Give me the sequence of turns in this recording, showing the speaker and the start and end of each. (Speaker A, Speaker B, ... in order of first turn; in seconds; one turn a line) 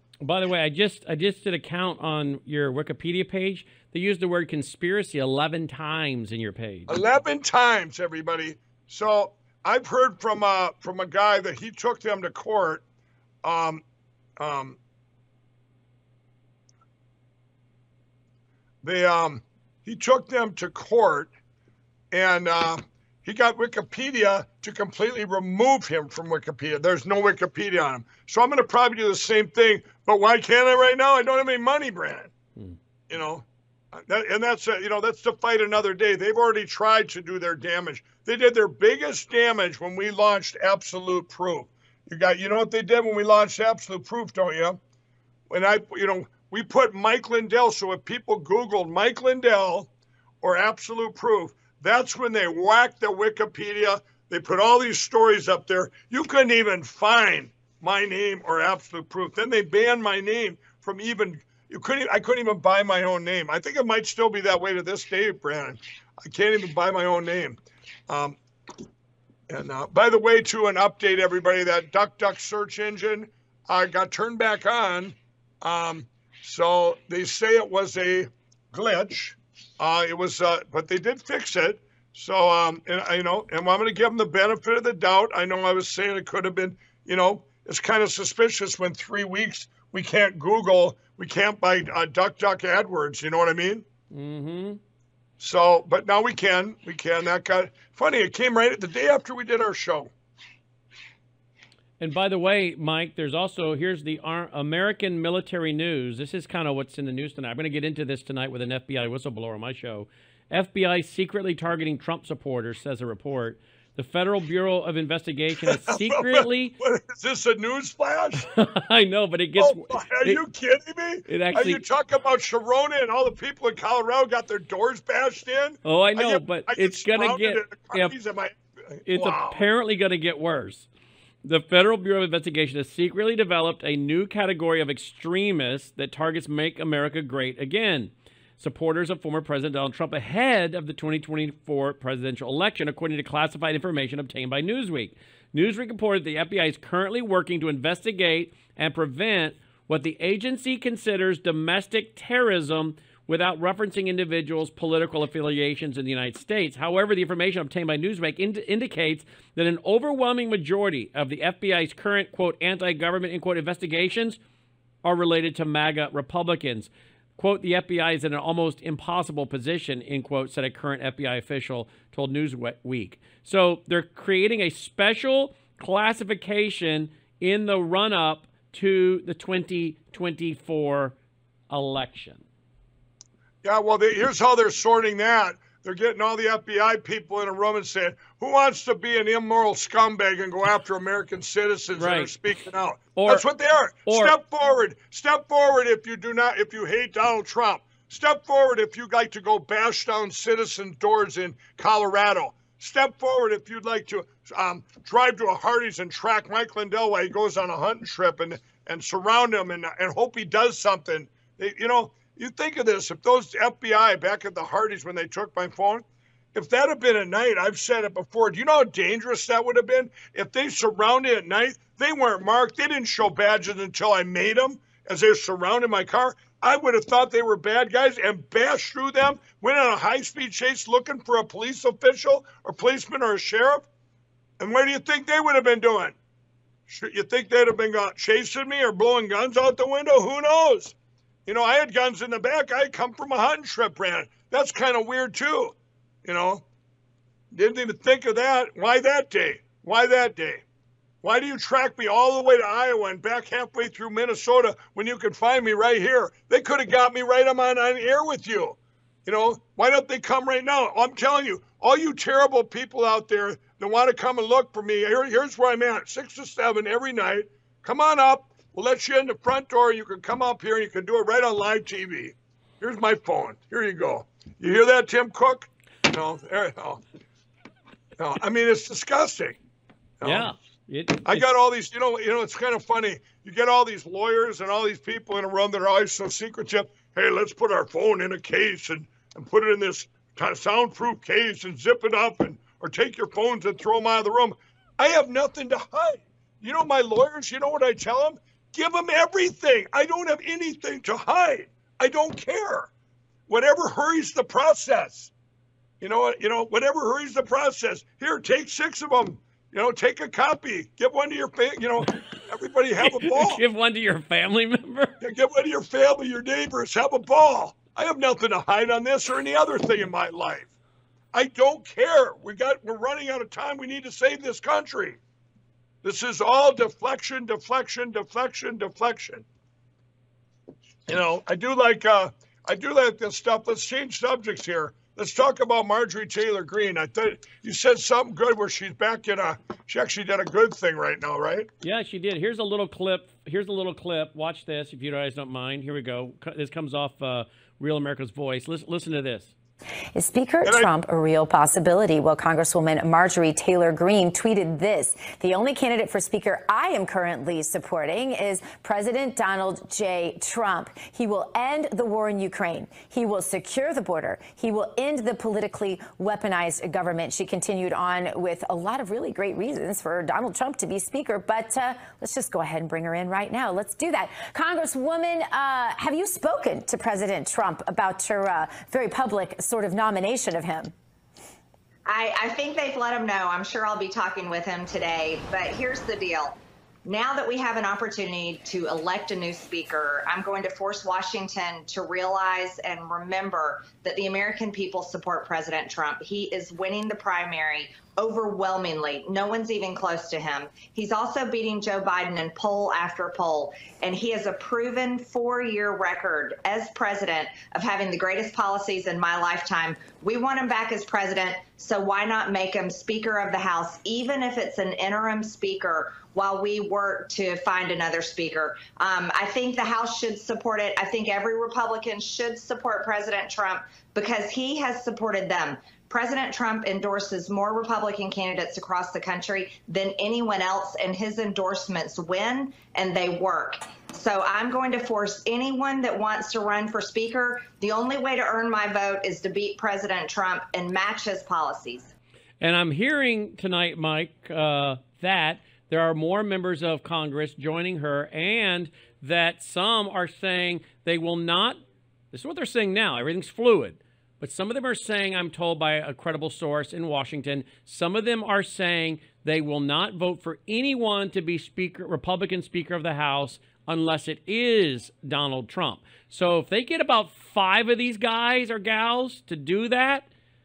Speaker A: 0.2-7.0
Speaker B: 6.9-12.8
Speaker B: 13.4-13.8
Speaker B: 14.4-14.8
Speaker B: 18.8-21.3
Speaker B: 22.1-32.3
Speaker B: 33.1-44.8
Speaker B: 45.5-49.9
Speaker B: 50.4-68.4
Speaker B: 69.5-93.9
Speaker A: 94.1-94.8
Speaker B: 95.4-100.1
Speaker A: 102.0-116.8
Speaker B: 115.6-118.5
Speaker A: 118.5-120.4
Speaker B: 119.6-129.7
Speaker A: 121.3-121.8
Speaker A: 125.8-128.2
Speaker A: 129.1-130.9
Speaker A: 131.4-164.4
Speaker A: 165.0-181.2
Speaker A: 181.7-182.4
Speaker B: 183.6-233.9
Speaker A: 192.0-192.3
Speaker A: 193.2-193.5
Speaker A: 194.1-194.3
Speaker B: 234.6-236.2
Speaker B: 236.9-240.9
Speaker B: 241.5-246.7
Speaker B: 247.5-250.6
Speaker B: 251.2-277.0
Speaker B: 278.2-279.6
Speaker B: 280.2-280.5
Speaker A: 280.2-281.5
Speaker B: 281.3-302.9
Speaker B: 303.5-305.3
Speaker B: 306.0-313.6
Speaker A: 313.0-315.2
Speaker B: 315.2-320.7
Speaker B: 321.3-325.2
Speaker B: 326.0-329.5
Speaker B: 331.1-341.7
Speaker A: 341.8-349.5
Speaker C: 350.1-380.9
Speaker B: 350.6-350.9
Speaker D: 382.1-442.1
Speaker A: 442.6-451.8
Speaker A: 452.3-470.3